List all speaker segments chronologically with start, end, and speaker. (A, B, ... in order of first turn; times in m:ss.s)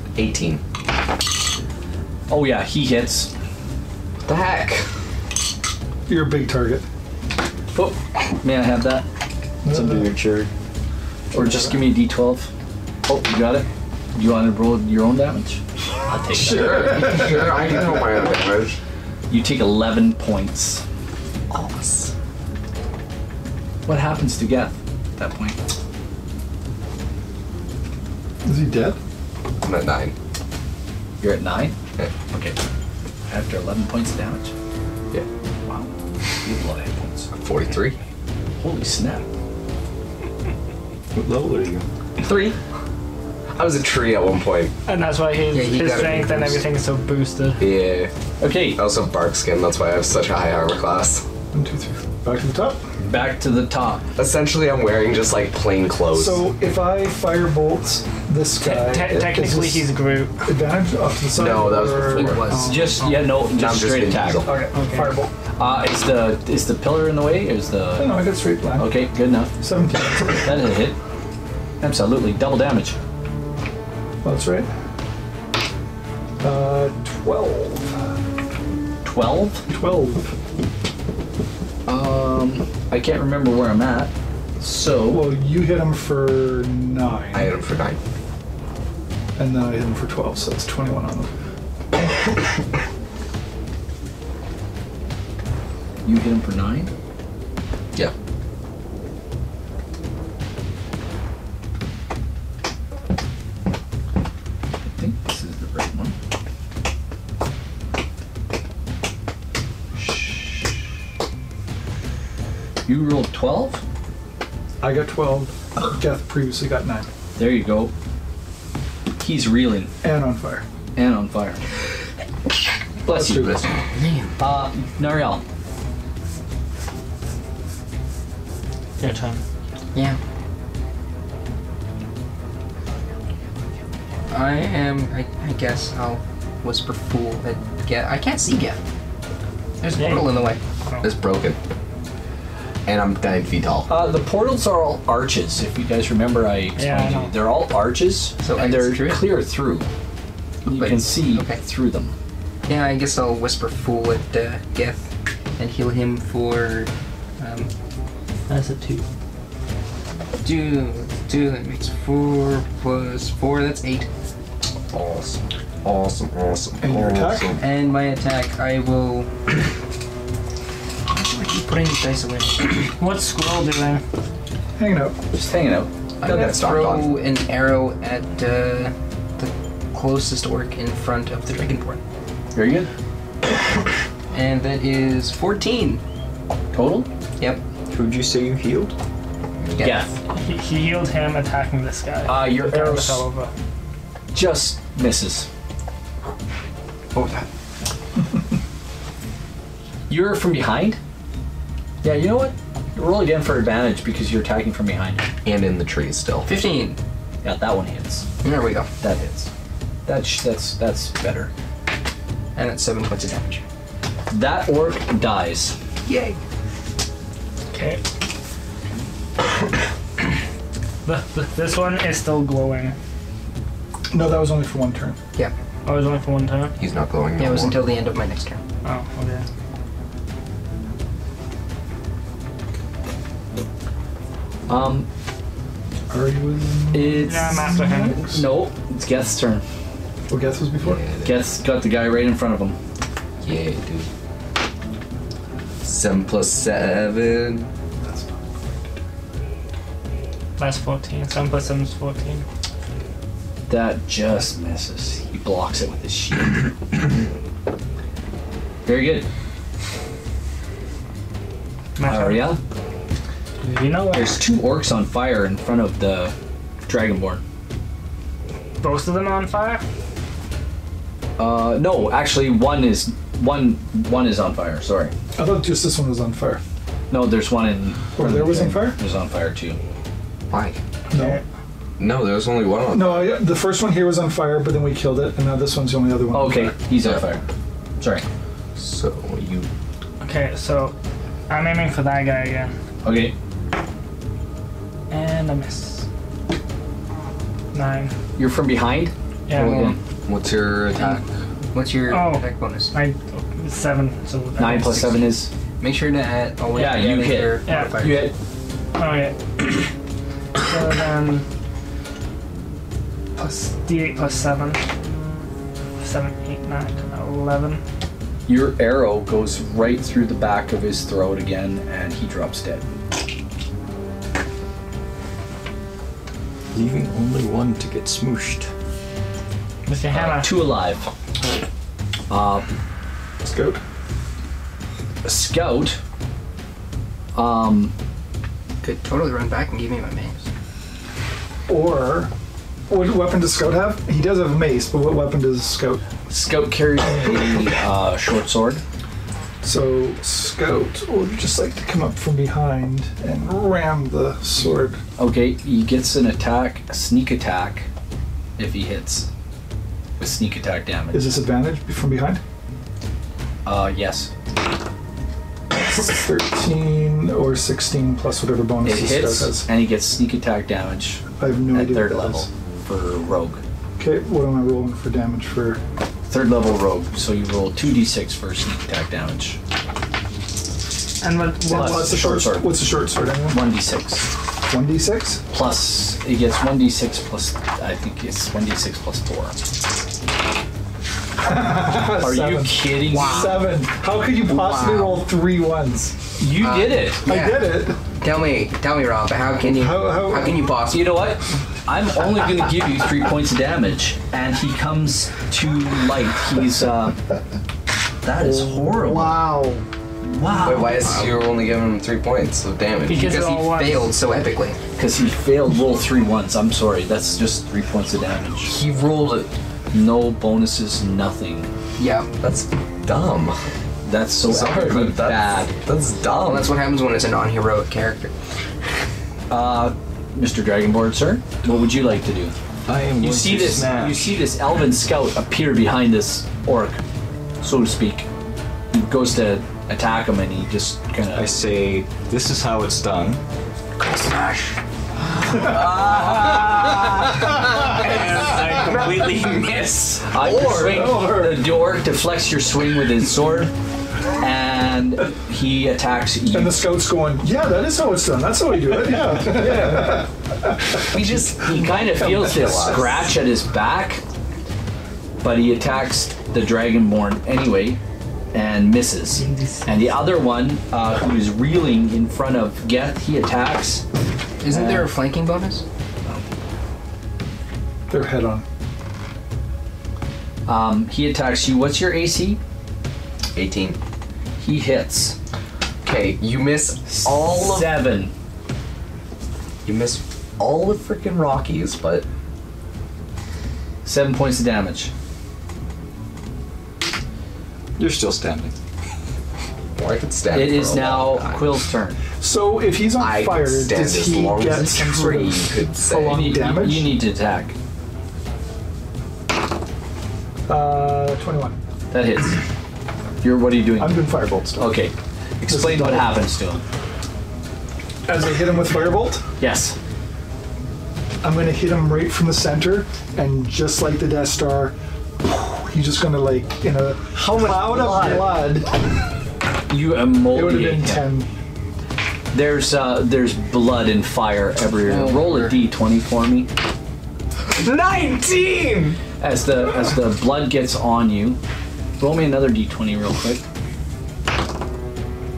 0:00.2-0:00.6 A
0:02.3-0:03.3 B
0:04.2-0:04.8 A
0:06.1-0:06.8 C
0:07.7-0:09.0 B
0:09.6-0:10.0 C
0:09.6-0:10.5 D
0:11.3-0:11.8 C
0:11.3-0:12.5 B
0:13.0-0:17.2 B
0:16.4-0:18.1 C
0:16.4-0:18.8 A
0:19.3-0:20.8 B
0:21.5-0:22.1 A
0:23.8-0:25.6 B
0:28.4-0:29.0 C
0:29.6-0:30.1 A
0:31.2-0:31.8 B
0:32.3-0:32.6 B
0:33.3-0:34.5 B
0:35.6-0:35.9 B
0:36.4-0:37.3 B
0:37.3-0:38.0 A
0:38.6-0:39.2 B
0:41.1-0:41.9 D
0:42.2-0:42.6 A
0:43.5-0:44.7 A
0:44.8-0:47.6 E
0:45.5-0:46.6 F
0:47.6-0:48.1 A
0:48.4-0:48.8 B
0:48.7-0:51.2 A
0:51.5-0:52.8 C
0:53.0-0:54.1 B
0:54.2-0:56.4 A
0:56.1-0:59.9 C
0:58.6-1:00.4 E
1:00.4-1:02.8 C
1:01.3-1:02.8 A
1:02.1-1:02.8 F
1:02.6-1:04.4 B
1:03.4-1:04.5 A
1:04.4-1:05.3 C
1:04.5-1:05.2 E
1:05.6-1:08.2 B
1:08.0-1:08.9 C
1:08.8-1:09.5 B
1:09.6-1:10.5 C
1:10.3-1:11.0 B
1:11.8-1:13.0 B
1:14.2-1:14.7 C
1:16.4-1:18.1 C
1:19.0-1:19.6 B
1:19.7-1:20.3 C
1:21.9-1:25.3 B
1:25.1-1:27.5 C
1:27.3-1:28.0 A
1:29.4-1:31.3 C
1:36.0-1:36.9 B
1:44.8-1:46.1 B
1:50.0-1:50.4 B
1:52.8-1:53.8 B
1:54.8-1:57.1 C
1:57.4-1:57.9 B
1:59.2-1:59.9 B
2:00.0-2:00.6 C
2:01.0-2:01.6 B
2:03.0-2:03.6 B
2:03.1-2:03.6 C
2:03.5-2:04.3 A
2:04.4-2:05.4 B
2:09.0-2:09.4 E
2:09.9-2:10.2 F
2:14.3-2:18.8 F
2:19.8-2:20.6 F
2:20.0-2:21.0 E
2:21.0-2:21.6 A
2:22.8-2:23.9 A
2:23.9-2:29.8 B
2:26.8-2:27.3 E
2:28.4-2:29.3 F
2:30.6-2:32.1 B
2:30.7-2:31.6 F
2:32.6-2:35.1 F
2:35.6-2:37.7 F
2:38.5-2:39.0 E
2:40.4-2:44.1 F
2:44.9-2:47.6 A
2:46.8-2:47.5 C
2:47.6-2:49.3 F
2:51.1-2:52.8 F
2:52.8-2:54.0 E
2:54.8-2:55.2 C
2:55.3-2:55.9 B
2:56.2-2:57.1 A
2:56.2-3:02.0 F
3:02.5-3:02.9 B
3:04.3-3:06.0 F
3:06.7-3:07.1 B
3:07.9-3:08.9 D
3:09.6-3:10.0 A
3:09.8-3:10.1 F
3:09.8-3:10.1 B
3:10.3-3:13.5 E
3:12.2-3:13.2 B
3:14.3-3:15.5 B
3:17.1-3:17.4 A
3:20.1-3:21.0 B
3:22.0-3:25.3 B
3:25.4-3:26.5 A
3:26.4-3:27.0 F
3:27.4-3:28.3 B
3:28.4-3:28.9 F
3:29.0-3:29.5 B
3:30.0-3:31.5 B
3:32.6-3:33.6 F
3:34.3-3:35.8 B
3:36.0-3:36.4 F
3:37.7-3:38.0 E
3:41.0-3:42.9 E
3:44.1-3:45.2 C
3:45.8-3:46.7 E
3:46.8-3:47.9 A
3:47.4-3:48.6 F
3:48.8-3:49.4 E
3:54.7-3:55.1 B
3:56.1-3:58.4 C
3:56.9-3:59.6 B
3:57.2-3:58.2 E
4:00.3-4:01.0 C
4:00.8-4:01.4 A
4:01.2-4:02.8 B
4:03.4-4:04.1 A
4:05.8-4:07.7 A
4:08.0-4:08.9 C
4:10.6-4:12.4 E
4:13.7-4:17.0 B
4:18.8-4:19.3 B
4:22.0-4:22.5 E
4:22.0-4:22.6 B
4:23.6-4:24.4 E
4:24.1-4:26.3 B
4:26.8-4:27.4 B
4:28.8-4:29.8 E
4:31.4-4:35.1 B
4:35.4-4:36.6 C
4:37.1-4:39.8 B
4:38.1-4:39.0 C
4:40.5-4:40.8 A
4:41.1-4:41.4 C
4:41.1-4:41.4 E
4:42.0-4:43.4 A
4:42.9-4:46.8 C
4:46.3-4:47.4 B
4:48.0-4:48.2 B
4:48.8-4:49.7 A
4:50.2-4:50.9 E
4:51.5-4:52.7 E
4:53.0-4:53.3 B
4:55.1-4:56.0 E
4:57.7-4:58.1 E
4:58.4-5:00.0 B
4:59.5-4:59.9 E
4:59.6-4:59.9 F
5:00.2-5:01.2 A
5:00.9-5:02.9 F
5:02.1-5:05.3 E
5:04.6-5:05.5 B
5:05.8-5:08.3 F
5:06.7-5:08.4 B
5:07.6-5:08.2 E
5:09.0-5:09.9 E
5:10.6-5:11.4 E
5:13.4-5:14.8 E
5:16.0-5:17.8 E
5:18.5-5:22.9 B
5:26.7-5:28.7 D
5:29.9-5:30.6 E
5:30.1-5:31.1 B
5:32.3-5:32.7 B
5:33.4-5:33.8 C
5:35.2-5:36.0 B
5:37.3-5:37.9 B
5:38.8-5:40.4 F
5:41.7-5:42.3 C
5:42.9-5:46.0 C
5:46.3-5:48.8 B
5:49.6-5:55.0 C
5:55.2-5:57.9 B
5:58.6-5:59.3 B
6:00.2-6:01.4 B
6:01.1-6:02.4 C
6:03.6-6:04.3 B
6:05.7-6:09.7 C
6:08.8-6:13.6 B
6:11.4-6:12.5 C
6:14.0-6:15.8 C
6:16.3-6:19.6 B
6:21.2-6:22.2 E
6:21.6-6:23.6 C
6:21.7-6:22.9 B
6:23.5-6:24.3 B
6:24.7-6:25.4 C
6:25.5-6:29.6 B
6:31.4-6:36.1 C
6:32.2-6:33.7 B
6:36.4-6:37.2 B
6:36.6-6:41.2 F
6:37.2-6:38.0 C
6:39.6-6:40.6 C
6:40.9-6:47.2 B
6:48.2-6:49.6 B
6:48.5-6:49.8 C
6:50.2-6:51.3 B
6:50.6-6:53.2 A
6:53.1-6:54.1 E
6:53.1-6:54.8 F
6:55.0-6:58.8 B
6:58.6-6:59.5 A
6:59.9-7:01.7 B
7:02.0-7:02.3 F
7:02.4-7:03.6 A
7:04.0-7:05.7 B
7:04.4-7:06.7 A
7:06.4-7:08.3 F
7:09.5-7:12.5 B
7:12.9-7:14.3 D
7:13.2-7:17.0 B
7:17.6-7:18.3 B
7:18.9-7:21.5 B
7:21.3-7:23.4 D
7:24.0-7:24.7 A
7:25.5-7:31.4 A
7:25.5-7:27.1 B
7:28.1-7:29.5 B
7:30.1-7:33.7 B
7:30.7-7:31.7 C
7:34.4-7:36.8 B
7:36.5-7:40.3 C
7:39.5-7:40.2 A
7:41.1-7:43.2 A
7:41.1-7:44.2 B
7:42.2-7:43.1 C
7:45.4-7:48.0 B
7:48.5-7:54.0 B
7:49.4-7:50.2 E
7:54.6-7:55.8 F
7:54.7-7:55.1 B
7:58.1-7:58.6 C
8:00.6-8:02.6 B
8:03.5-8:04.0 A
8:04.6-8:05.4 B
8:06.0-8:08.0 A
8:07.1-8:08.3 B
8:09.8-8:12.2 A
8:14.0-8:15.1 B
8:18.0-8:18.7 D
8:20.0-8:21.8 A
8:20.5-8:22.2 B
8:22.4-8:27.1 C
8:23.2-8:26.4 A
8:26.2-8:27.7 B
8:30.7-8:31.8 C
8:32.1-8:32.6 B
8:33.4-8:36.8 B
8:34.0-8:34.9 C
8:35.6-8:36.3 C
8:38.3-8:39.4 C
8:39.6-8:40.0 B
8:41.4-8:48.9 C
8:47.4-8:48.6 B
8:49.9-8:51.3 B
8:50.5-8:51.5 C
8:52.5-8:56.7 B
8:55.0-8:55.8 F
8:57.6-8:59.2 A
8:59.4-9:01.6 B
9:02.2-9:03.6 B